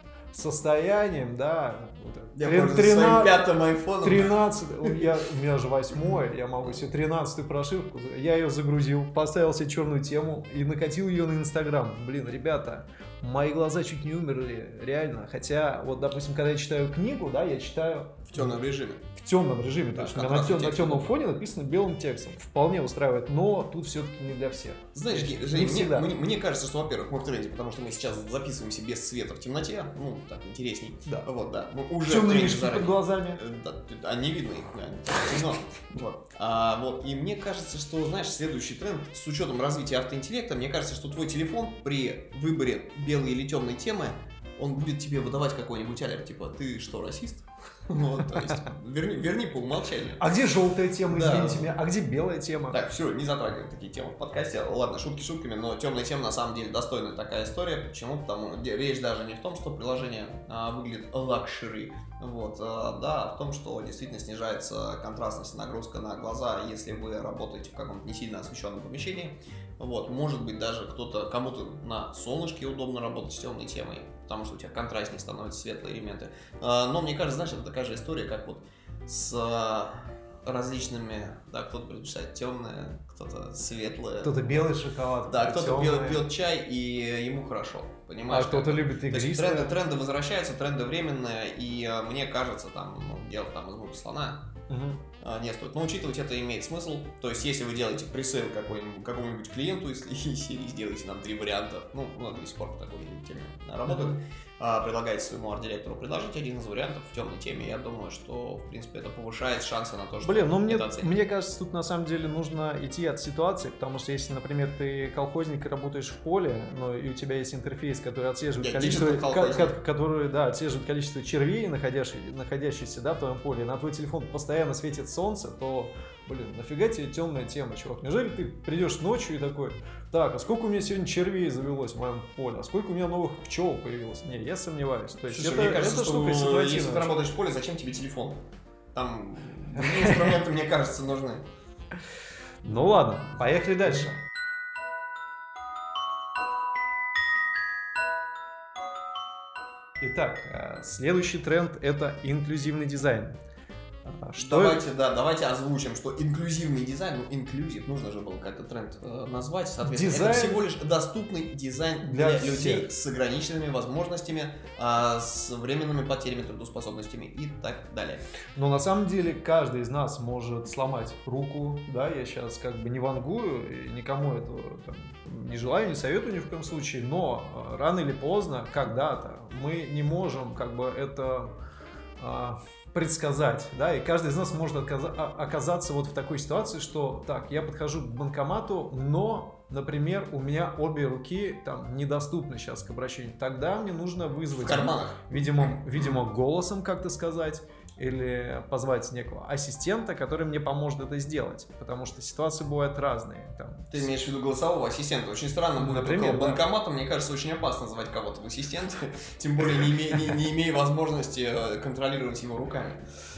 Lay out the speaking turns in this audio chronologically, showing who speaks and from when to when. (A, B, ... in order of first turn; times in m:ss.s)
0:00.3-0:03.4 A
0:02.4-0:05.1 B
0:04.0-0:18.6 A
0:18.3-0:19.0 B
0:19.2-0:26.1 A
0:20.0-0:21.1 B
0:25.0-0:50.2 B
0:32.0-0:33.4 A
0:50.2-0:52.8 A
0:51.1-0:51.7 B
0:52.7-1:24.8 B
1:24.2-1:26.3 A
1:25.3-1:34.5 B
1:28.3-1:29.8 A
1:34.7-1:35.0 A
1:35.2-1:51.1 B
1:43.9-1:44.2 A
1:50.2-2:17.2 A
1:58.6-1:59.8 B
2:15.3-2:18.4 B
2:18.9-2:21.4 B
2:19.8-2:20.3 A
2:22.6-2:24.2 A
2:30.0-2:33.4 A
2:34.0-2:34.8 A
2:34.4-2:48.2 B
2:39.8-2:40.6 A
2:42.0-2:42.9 A
2:48.6-3:01.6 A
3:02.2-3:24.2 A
3:14.5-3:16.2 B
3:23.9-3:33.0 B
3:25.8-3:26.6 A